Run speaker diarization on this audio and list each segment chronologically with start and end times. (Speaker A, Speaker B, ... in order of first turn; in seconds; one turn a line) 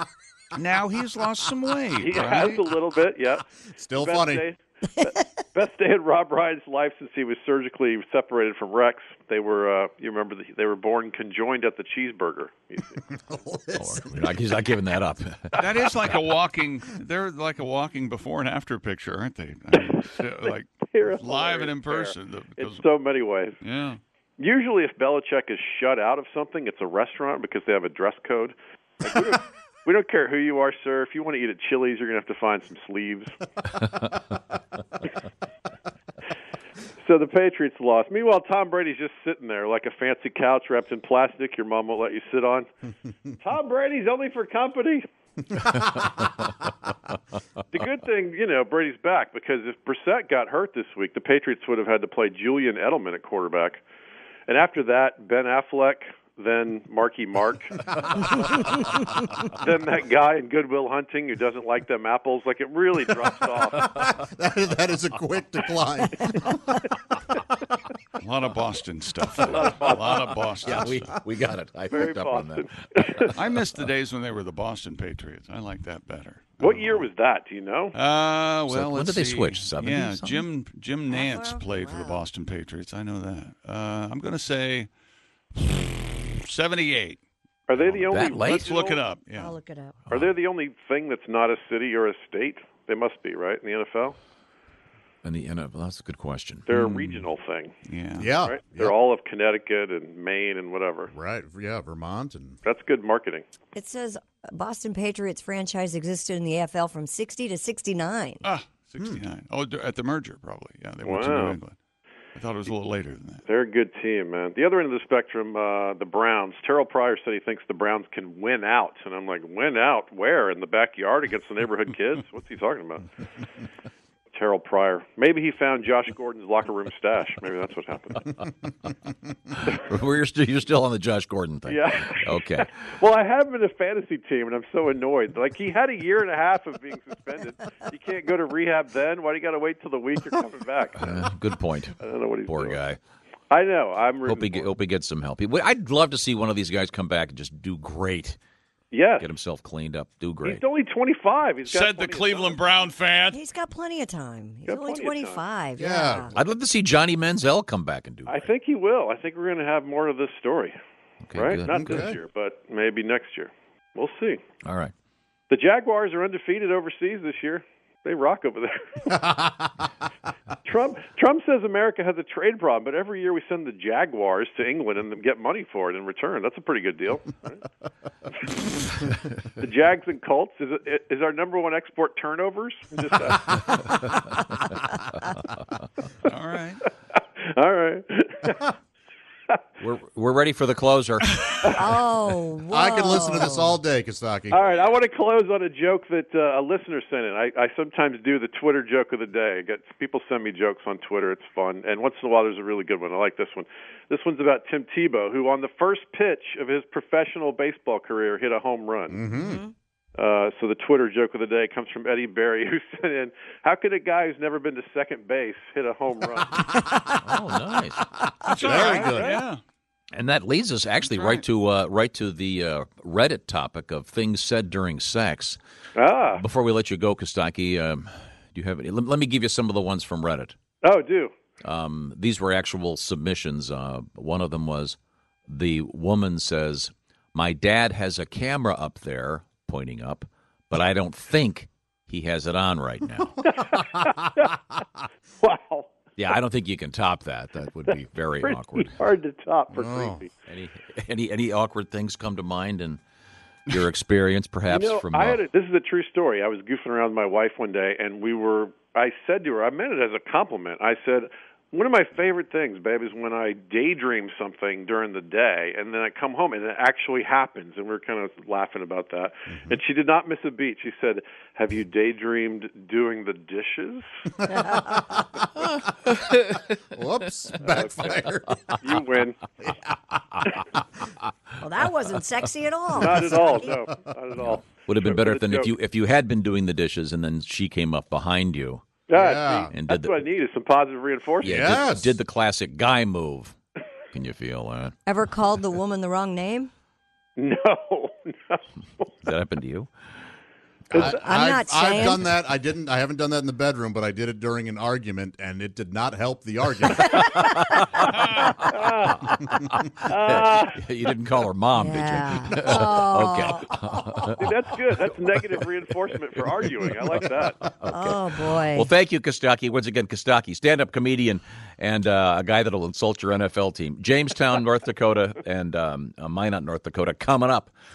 Speaker A: 0.5-2.6
Speaker B: 1.9-13.0
Speaker C: 3.8-4.5
Speaker C: 13.1-14.3
Speaker D: 13.8-15.6
Speaker A: 15.6-22.8
Speaker B: 20.8-23.6
Speaker A: 23.6-24.0
Speaker B: 24.4-33.3
Speaker B: 37.0-42.7
Speaker B: 43.4-45.0
Speaker B: 47.7-53.8
Speaker B: 54.5-57.9
Speaker B: 59.5-63.9
Speaker C: 63.7-66.9
Speaker A: 68.2-71.1
Speaker B: 69.5-70.4
Speaker D: 70.6-73.3
Speaker B: 71.9-73.4
Speaker A: 73.3-77.1
Speaker B: 76.6-77.9
Speaker A: 77.9-84.9
Speaker D: 78.7-80.4
Speaker E: 81.1-82.2
Speaker A: 85.5-87.2
Speaker B: 87.7-89.0
Speaker A: 87.7-89.6
Speaker D: 88.1-88.7
Speaker E: 89.3-90.1
Speaker B: 90.1-94.2
Speaker D: 95.2-97.3
Speaker B: 96.7-97.7
Speaker A: 97.8-98.3
Speaker C: 98.2-98.9
Speaker B: 98.4-101.1
Speaker C: 101.1-102.6
Speaker B: 102.6-103.4
Speaker E: 103.7-108.4
Speaker A: 108.4-111.7
Speaker B: 111.0-111.6
Speaker A: 112.3-113.4
Speaker B: 113.5-123.1
Speaker B: 124.3-128.4
Speaker D: 129.6-132.7
Speaker B: 131.7-141.3
Speaker D: 140.9-143.0
Speaker B: 142.0-142.8
Speaker B: 143.5-144.7
Speaker D: 144.2-148.4
Speaker B: 148.9-149.3
Speaker D: 149.2-150.6
Speaker B: 150.4-152.6
Speaker A: 151.6-153.4
Speaker E: 153.3-156.3
Speaker B: 154.7-155.4
Speaker C: 155.8-156.3
Speaker D: 156.3-158.5
Speaker B: 158.2-160.7
Speaker D: 161.2-162.1
Speaker B: 161.3-164.4
Speaker C: 161.8-162.2
Speaker D: 164.6-164.9
Speaker B: 165.5-169.2
Speaker C: 169.1-169.7
Speaker B: 170.6-177.6
Speaker B: 178.3-178.7
Speaker B: 179.5-184.2
Speaker A: 186.2-186.9
Speaker B: 187.1-188.7
Speaker D: 189.8-191.8
Speaker B: 191.4-191.8
Speaker E: 191.7-193.8
Speaker C: 192.7-194.6
Speaker B: 194.5-209.2
Speaker C: 209.1-209.6
Speaker E: 209.4-209.7
Speaker B: 210.2-216.7
Speaker D: 217.2-218.1
Speaker C: 218.3-219.4
Speaker A: 218.4-219.6
Speaker B: 218.6-219.4
Speaker D: 220.1-225.6
Speaker B: 225.9-226.4
Speaker D: 226.3-230.5
Speaker B: 230.8-231.3
Speaker D: 231.6-243.3
Speaker C: 243.4-243.9
Speaker B: 243.4-244.5
Speaker B: 245.4-245.9
Speaker D: 246.2-249.0
Speaker B: 248.4-250.3
Speaker C: 249.7-250.2
Speaker D: 250.5-253.0
Speaker D: 253.7-255.4
Speaker B: 254.7-274.1
Speaker C: 269.5-269.8
Speaker E: 274.4-275.0
Speaker C: 274.7-275.4
Speaker D: 275.7-276.7
Speaker C: 276.9-278.8
Speaker B: 278.8-279.5
Speaker E: 281.6-283.9
Speaker B: 282.9-285.7
Speaker D: 284.4-288.8
Speaker B: 289.1-291.8
Speaker C: 289.1-289.7
Speaker D: 289.7-290.2
Speaker D: 291.4-293.5
Speaker C: 291.4-292.1
Speaker D: 294.1-294.9
Speaker E: 295.1-296.7
Speaker B: 297.4-298.6
Speaker D: 299.2-299.9
Speaker B: 300.9-301.2
Speaker C: 300.9-307.3
Speaker E: 301.1-302.3
Speaker E: 307.0-308.1
Speaker D: 307.1-308.1
Speaker A: 307.9-308.6
Speaker B: 308.5-309.3
Speaker D: 309.3-314.5
Speaker B: 310.0-310.8
Speaker E: 311.7-314.2
Speaker B: 314.3-317.7
Speaker D: 317.8-327.7
Speaker E: 317.9-318.9